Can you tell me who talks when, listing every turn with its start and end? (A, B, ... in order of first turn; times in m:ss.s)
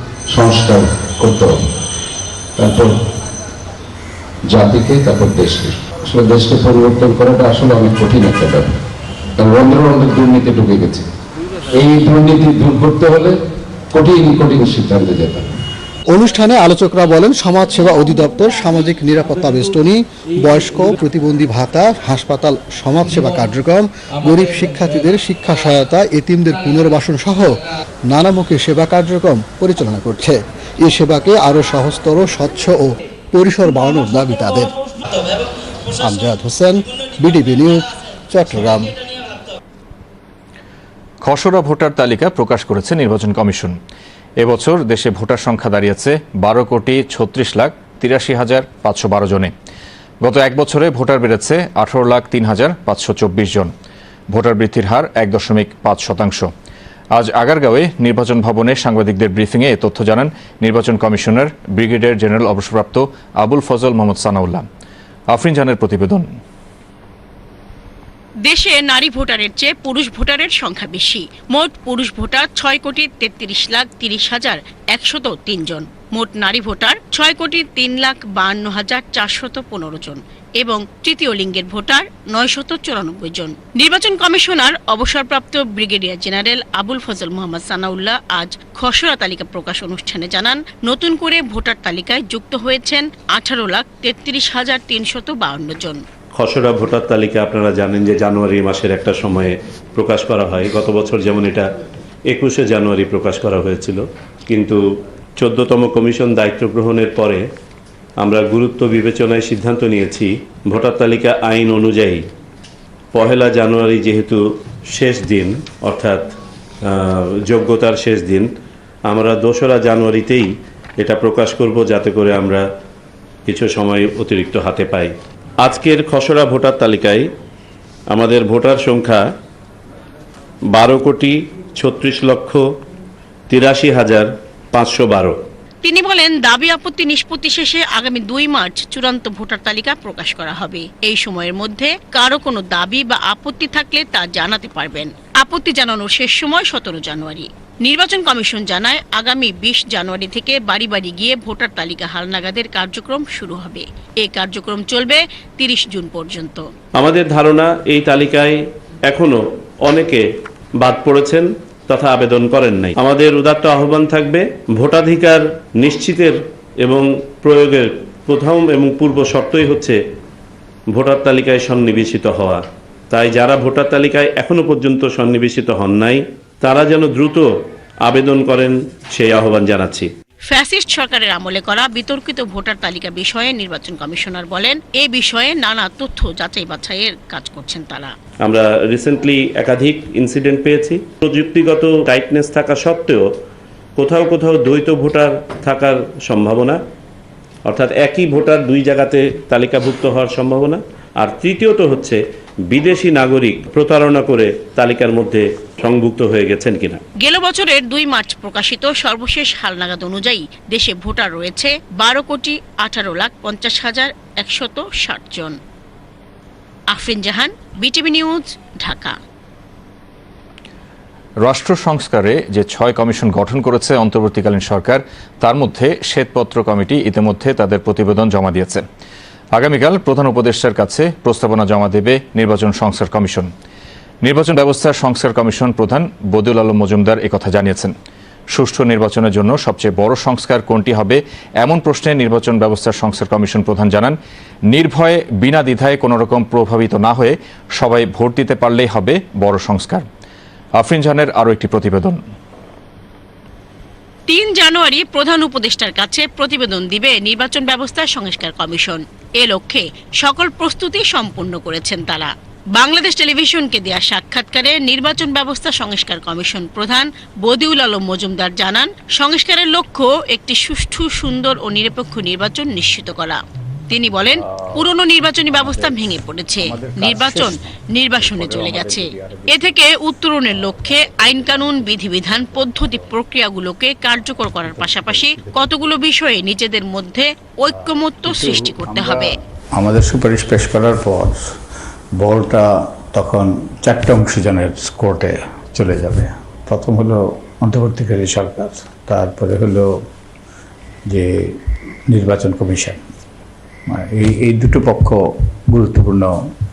0:00.3-0:01.6 A
0:02.6-0:02.9 A
0:04.4-0:08.8 A
0:09.4-0:11.1 A
0:11.7-0:13.4 A
0:13.9-0:15.6 A
0:16.1-0:27.6 B
0:28.1-0:34.7 B
0:36.0-0:38.9 B
0:41.2-0:43.8 C
0:44.4-0:49.5 C
0:50.2-0:53.7 C
0:54.3-0:56.5 C
0:57.1-1:04.6 C
1:05.3-1:06.3 C
1:08.4-1:36.0 D
1:36.3-1:41.6 E
1:42.3-1:44.8 E
1:45.4-1:47.4 E
1:48.2-1:52.2 E
1:53.1-1:56.3 E
1:56.8-1:58.5 E
1:59.1-2:02.6 E
2:03.5-2:07.3 E
2:08.1-2:09.2 E
2:10.7-2:12.6 E
2:13.5-2:15.4 E
2:15.8-2:36.6 D
2:37.0-2:40.2 E
2:40.8-2:50.0 E
2:50.9-2:57.5 E
2:58.0-3:00.1 E
3:00.5-3:08.1 D
3:08.4-3:13.3 E
3:14.0-3:16.8 E
3:17.7-3:27.0 E
3:27.2-3:35.6 D
3:36.9-3:39.2 D
3:41.4-3:48.8 C
3:49.6-3:53.5 C
3:54.2-3:57.9 C
3:58.5-4:04.2 C
4:04.7-4:10.1 C
4:10.8-4:12.2 C
4:14.3-4:49.3 D
4:34.6-4:34.9 F
4:35.5-4:36.1 F
4:36.6-4:39.8 F
4:40.5-4:43.1 F
4:44.7-4:45.7 F
4:47.8-4:51.4 F
4:52.2-4:59.9 F
5:01.1-5:01.5 F
5:02.1-5:03.0 F
5:03.9-5:05.2 F
5:05.7-5:06.3 F